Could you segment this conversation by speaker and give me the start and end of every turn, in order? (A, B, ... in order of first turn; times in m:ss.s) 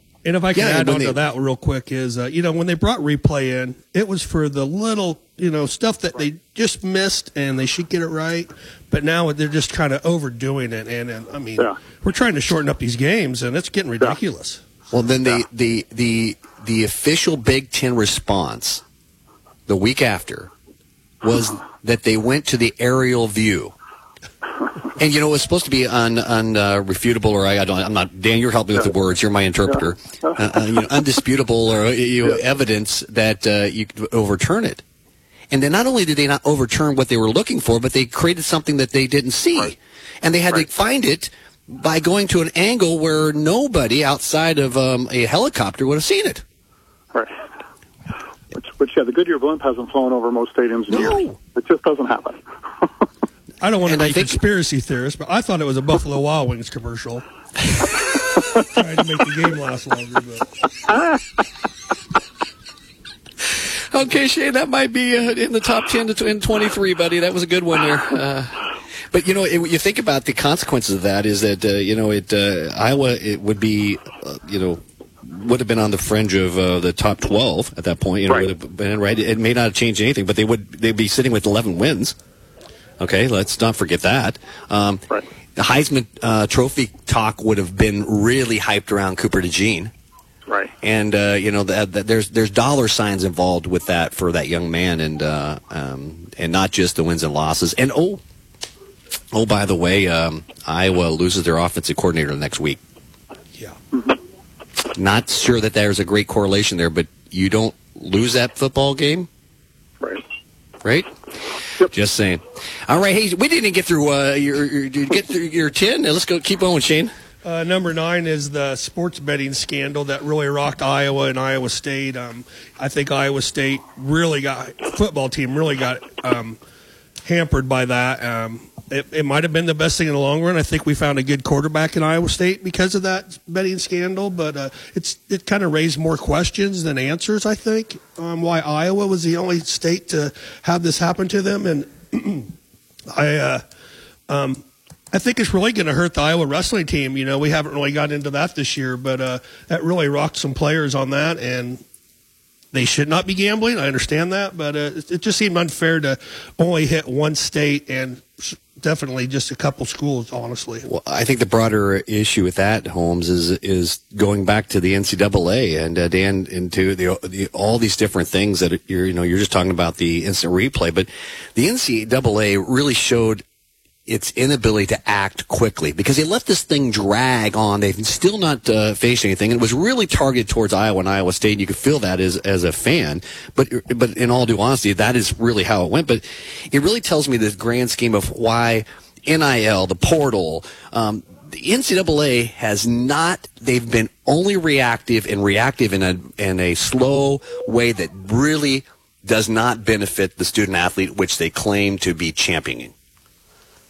0:00.2-0:14.6 A
0:00.5-0:01.2 B
0:14.9-0:18.8 B
0:19.7-0:20.5 B
0:21.2-0:23.7 B
0:25.0-0:34.8 B
0:35.5-0:46.4 B
0:48.5-0:52.8 C
0:53.6-0:57.2 A
0:53.9-0:54.4 B
0:58.6-1:00.6 A
1:03.9-1:22.1 B
1:23.0-1:25.0 B
1:25.6-1:29.9 B
1:30.5-1:30.7 C
1:30.8-1:38.2 B
1:39.3-1:42.8 B
1:44.9-1:49.3 B
1:50.8-1:51.1 B
1:51.8-1:57.1 B
1:57.4-2:06.6 A
2:07.2-2:22.5 A
2:23.1-2:23.6 A
2:24.3-2:31.8 A
2:32.7-2:40.8 A
2:40.8-2:53.4 B
2:54.1-3:22.9 B